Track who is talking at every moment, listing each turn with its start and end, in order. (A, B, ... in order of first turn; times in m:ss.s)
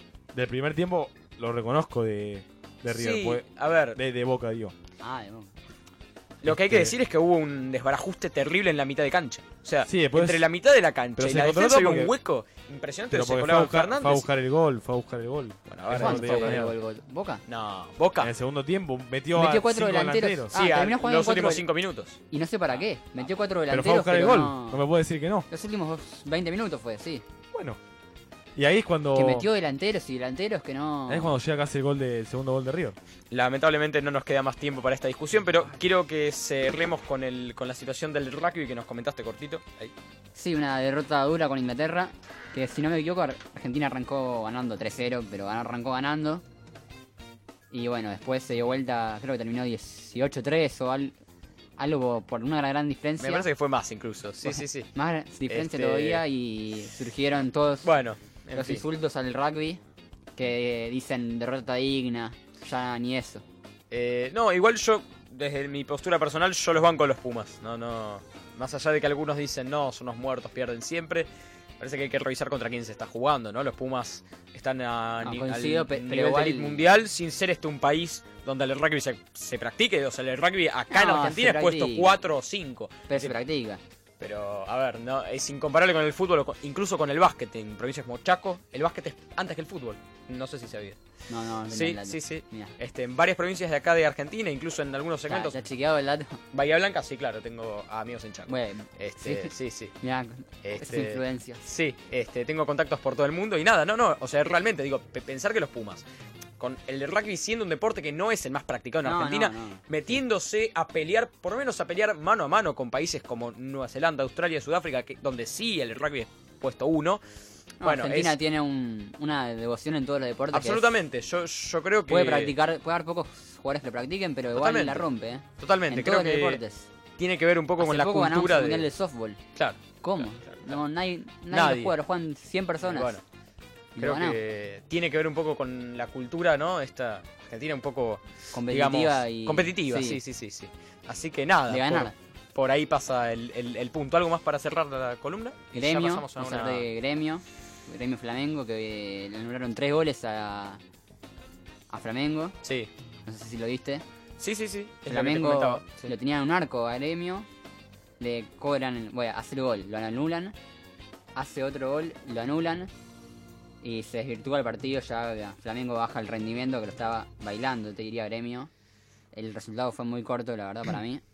0:00.3-0:03.4 A
0:02.9-0:04.0 B
0:03.9-0:04.7 A
0:05.0-0:05.5 C
0:06.4-0:14.3 B
0:06.4-0:06.9 A
0:09.8-0:10.4 A
0:11.2-0:12.1 A
0:13.1-0:16.7 A
0:15.7-0:16.6 B
0:15.9-0:17.4 C
0:17.5-0:18.3 B
0:18.2-0:20.5 A
0:19.3-0:21.6 C
0:20.5-0:22.2 B
0:22.3-0:24.8 C
0:23.7-0:25.4 A
0:25.5-0:27.2 C
0:27.5-0:27.8 A
0:28.6-0:29.4 A
0:29.1-0:31.3 C
0:31.1-0:33.0 A
0:33.3-0:39.9 B
0:40.3-0:46.4 C
0:47.7-0:51.2 C
0:51.8-0:53.5 C
0:53.2-0:54.9 B
0:54.4-0:57.9 C
0:55.5-0:56.2 B
0:57.8-0:58.8 B
0:58.5-0:59.8 C
1:00.4-1:03.4 C
1:03.9-1:11.3 B
1:11.8-1:23.3 B
1:15.2-1:16.8 C
1:20.9-1:22.1 C
1:23.1-1:23.8 C
1:24.2-1:31.0 B
1:31.3-1:32.7 C
1:31.7-1:35.6 B
1:35.3-1:36.4 C
1:36.5-1:39.9 B
1:38.5-1:41.6 C
1:40.6-1:46.0 B
1:46.6-1:57.2 B
1:49.0-1:49.8 C
1:57.8-1:58.4 B
1:57.8-2:00.8 C
2:00.5-2:02.5 B
2:02.1-2:06.9 C
2:04.5-2:06.6 B
2:07.2-2:08.8 B
2:07.8-2:09.4 C
2:09.5-2:10.8 B
2:10.0-2:13.1 C
2:11.5-2:11.9 B
2:12.8-2:13.2 B
2:14.0-2:14.4 C
2:14.0-2:26.8 B
2:18.5-2:20.2 C
2:21.7-2:22.1 C
2:25.7-2:30.8 C
2:31.9-2:32.5 C
2:32.6-2:32.9 B
2:33.2-2:34.0 C
2:34.4-2:36.1 B
2:35.1-2:37.5 C
2:38.2-2:40.6 C
2:41.3-2:42.9 C
2:43.8-2:48.7 C
2:49.3-2:51.2 C